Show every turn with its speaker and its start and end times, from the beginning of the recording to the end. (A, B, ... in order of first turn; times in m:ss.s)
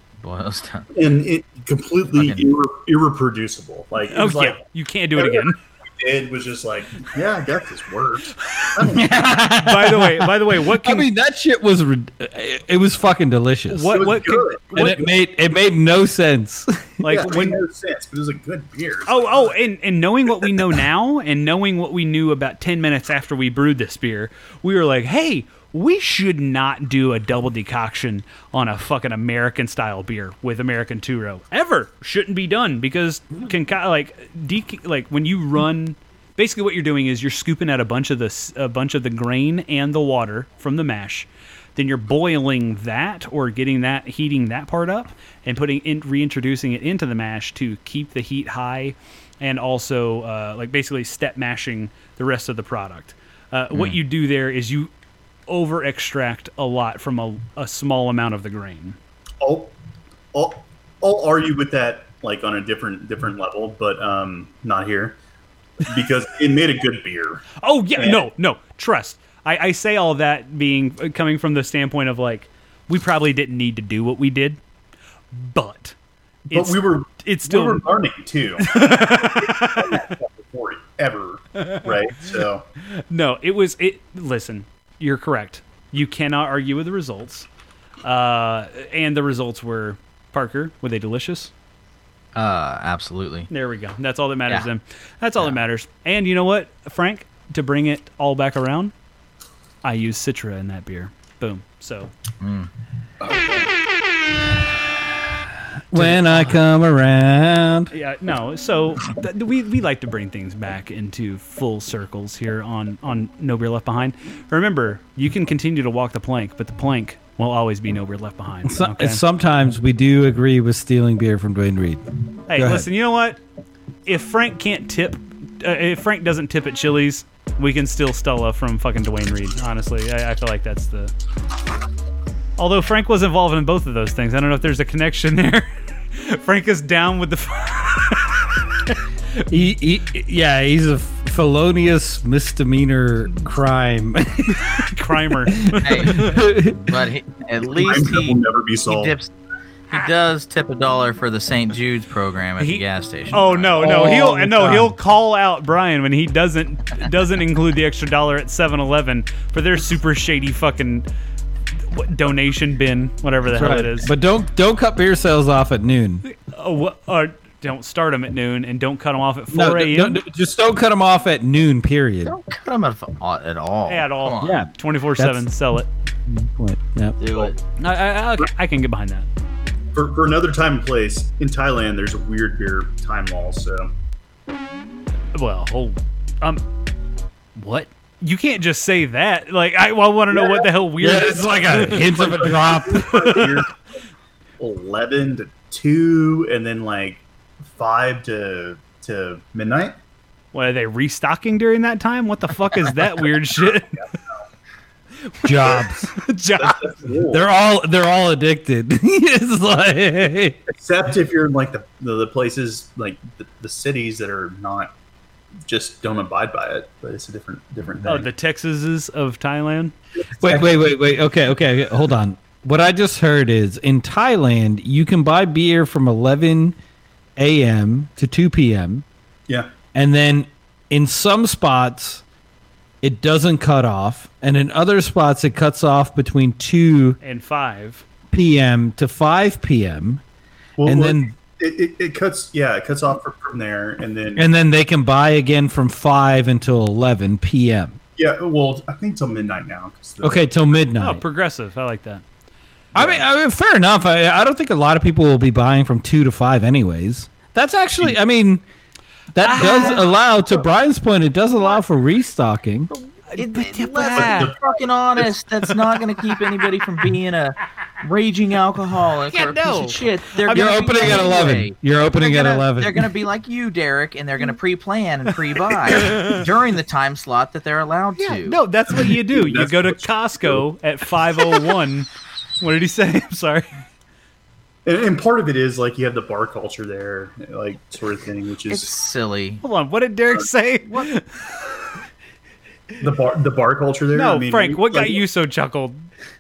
0:00.2-0:00.9 A
0:00.9-0:04.6 B
0:02.2-0:02.4 A
0:04.1-0:05.6 C
0:05.2-0:09.3 B
0:08.4-0:11.1 C
0:08.9-0:14.0 D
0:13.7-0:15.0 C
0:13.9-0:15.0 B
0:14.7-0:17.5 D
0:17.0-0:17.6 C
0:17.1-0:19.5 B
0:19.1-0:54.9 C
0:53.7-0:54.0 A
0:55.5-0:59.0 C
0:59.4-0:59.7 B
1:00.3-1:05.2 B
1:05.8-1:08.3 B
1:07.6-1:14.6 C
1:15.3-1:16.0 C
1:16.5-1:17.9 C
1:16.5-1:22.6 B
1:18.6-1:20.1 C
1:21.6-1:27.5 C
1:28.0-1:31.5 C
1:32.4-1:33.5 A
1:33.5-1:38.9 C
1:39.8-1:42.1 C
1:42.4-1:42.7 A
1:43.2-1:43.7 B
1:45.9-1:47.9 D
1:45.9-1:46.6 C
1:47.9-1:59.2 C
1:58.6-2:02.0 D
2:02.5-2:03.4 C
2:02.6-2:02.9 D
2:04.1-2:11.1 C
2:12.6-2:19.5 C
2:19.5-2:24.9 D
2:24.8-2:26.4 C
2:25.7-2:26.9 D
2:25.8-2:29.3 A
2:27.7-2:29.2 B
2:29.9-2:33.9 A
2:32.6-2:41.1 C
2:33.8-2:34.9 D
2:41.9-2:44.1 C
2:43.5-2:46.2 D
2:46.2-2:50.2 C
2:49.5-2:52.3 D
2:52.3-2:54.6 A
2:53.9-2:55.9 C
2:54.4-2:55.5 D
2:56.3-2:57.2 D
2:57.2-2:57.6 A
2:57.8-2:59.3 C
2:59.9-3:03.9 B
3:05.3-3:06.7 C
3:07.6-3:12.6 C
3:11.0-3:13.6 D
3:12.3-3:13.7 B
3:14.6-3:20.0 B
3:20.5-3:24.0 C
3:25.4-3:26.1 D
3:25.6-3:26.8 C
3:26.6-3:27.4 B
3:27.3-3:30.6 D
3:30.8-3:34.9 B
3:35.7-3:38.3 B
3:38.0-3:39.9 C
3:40.4-3:40.7 B
3:40.4-3:46.8 D
3:47.4-3:49.0 D
3:49.9-3:52.2 D
3:53.0-3:57.2 D
3:57.2-3:58.1 C
3:58.3-4:00.2 D
4:00.8-4:04.5 B
4:00.8-4:01.3 D
4:04.4-4:08.0 D
4:08.2-4:10.5 B
4:10.2-4:11.2 D
4:11.0-4:12.2 C
4:13.0-4:18.6 D
4:19.3-4:22.9 D
4:19.4-4:20.1 C
4:23.3-4:24.5 C
4:23.4-4:38.6 A
4:24.1-4:25.4 B
4:29.3-4:31.3 C
4:30.5-4:33.1 D
4:35.9-4:36.4 C
4:38.2-4:42.1 C
4:39.0-4:40.6 B
4:42.6-4:43.7 C
4:44.8-4:49.0 B
4:48.7-4:49.6 A
4:49.6-4:51.7 C
4:53.0-4:55.2 B
4:54.1-4:56.1 C